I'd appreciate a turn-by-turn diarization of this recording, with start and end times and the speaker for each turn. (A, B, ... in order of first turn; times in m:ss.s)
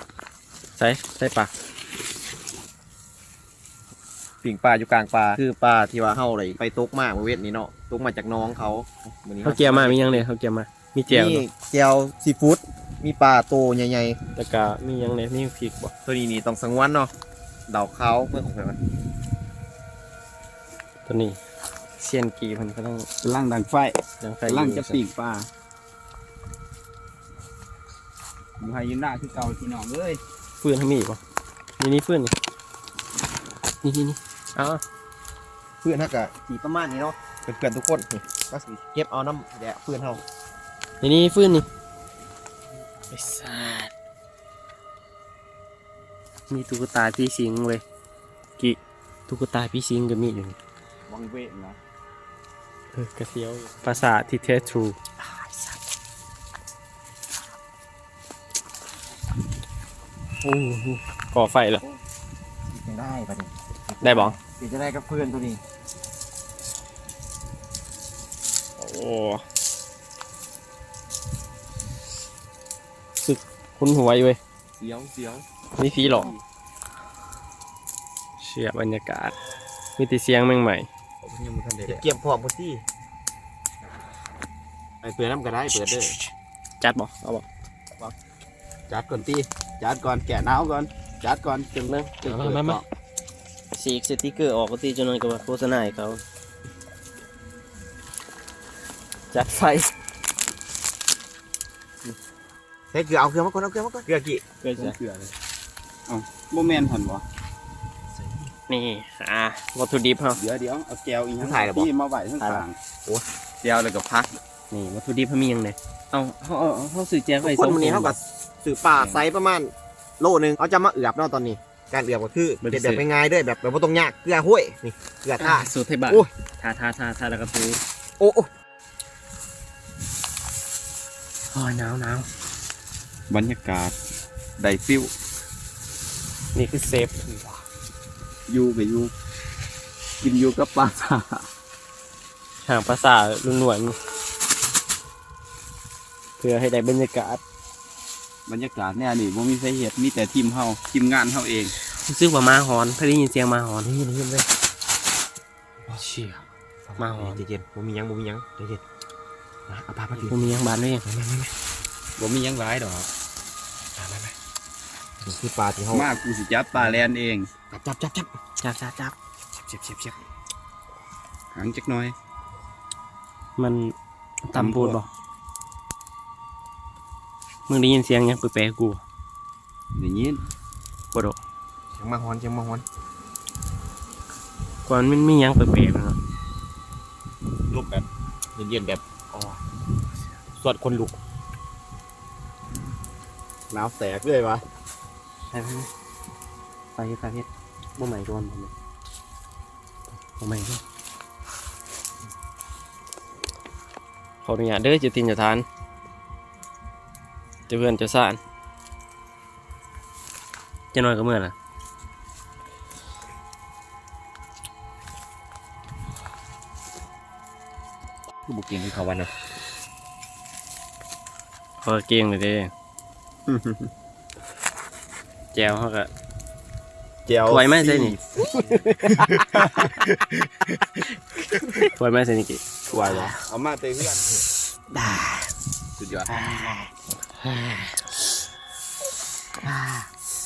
0:00.8-0:01.5 A
0:04.4-0:10.2 B
0:09.4-0:11.4 A
0:11.1-0:14.2 B
0:14.4-0:15.9 A
0:16.0-0:17.1 B
0:17.7-0:18.8 B
0:21.0-0:21.4 A
0:22.0-0:23.1 A
0:23.2-0:25.5 C
0:24.2-0:25.0 A
0:28.6-0:30.2 C
0:30.6-0:31.2 A
0:31.8-0:32.3 A
0:33.8-0:34.8 A
0:35.8-0:40.2 B
0:41.0-0:41.7 A
0:43.0-0:43.8 C
0:43.1-0:43.9 A
0:46.5-0:47.8 A
0:48.6-0:50.6 A
0:51.1-0:51.8 C
0:52.9-0:55.8 A
0:53.8-0:54.9 C
1:00.4-1:01.8 A
1:02.7-1:05.6 B
1:04.0-1:04.4 A
1:08.8-1:09.4 A
1:13.2-1:14.4 A
1:14.8-1:16.4 C
1:15.8-1:16.3 A
1:18.4-1:19.3 A
1:20.0-1:20.9 A
1:21.2-1:22.0 C
1:21.8-1:22.8 B
1:25.0-1:26.2 B
1:26.8-1:27.4 A
1:28.9-1:32.8 C
1:31.8-1:32.8 A
1:33.7-1:36.2 A
1:39.3-1:39.9 A
1:42.9-1:44.4 B
1:44.6-1:45.0 A
1:44.7-1:45.3 C
1:46.1-1:47.2 C
1:48.7-1:50.4 A
1:50.3-1:52.8 C
1:51.4-1:51.9 B
1:52.4-1:52.6 A
1:53.6-1:54.3 C
1:54.7-1:58.2 A
1:57.4-2:06.3 B
1:58.9-1:59.2 C
2:02.6-2:03.0 A
2:05.4-2:07.8 A
2:08.2-2:08.5 B
2:11.5-2:12.3 A
2:13.3-2:14.0 C
2:14.6-2:15.1 C
2:16.5-2:17.6 A
2:18.5-2:19.1 C
2:20.2-2:21.5 C
2:22.6-2:24.0 A
2:26.4-2:27.4 A
2:28.4-2:31.7 C
2:31.8-2:33.9 A
2:33.8-2:34.5 B
2:35.9-2:36.4 A
2:36.9-2:38.8 B
2:37.0-2:37.4 A
2:39.7-2:41.5 B
2:40.2-2:41.0 A
2:42.2-2:43.1 C
2:45.2-2:46.1 B
2:45.9-2:47.5 C
2:46.8-2:47.0 B
2:47.7-2:48.3 B
2:48.6-2:49.1 A
2:49.5-2:50.1 B
2:51.5-2:52.1 C
2:53.6-2:55.1 A
2:54.5-2:55.0 C
2:57.7-2:59.0 A
2:59.9-3:00.4 C
3:01.9-3:02.8 B
3:04.8-3:06.2 A
3:07.7-3:08.0 C
3:08.6-3:09.0 B
3:09.3-3:09.6 A
3:10.6-3:11.2 B
3:13.8-3:14.6 C
3:15.5-3:15.9 A
3:17.0-3:18.7 A
3:20.4-3:20.8 A
3:24.4-3:25.6 A
3:27.7-3:28.4 A
3:30.9-3:31.5 A
3:38.5-3:39.3 B
3:41.8-3:42.7 A
3:43.5-3:43.9 C
3:45.5-3:46.1 A
3:47.2-3:50.9 C
3:47.4-3:50.1 A
3:51.6-3:51.9 C
3:51.6-3:53.3 A
3:52.9-3:54.4 C
3:54.9-3:55.6 A
3:56.0-3:56.5 C
3:56.3-3:58.2 A
3:59.6-4:00.0 A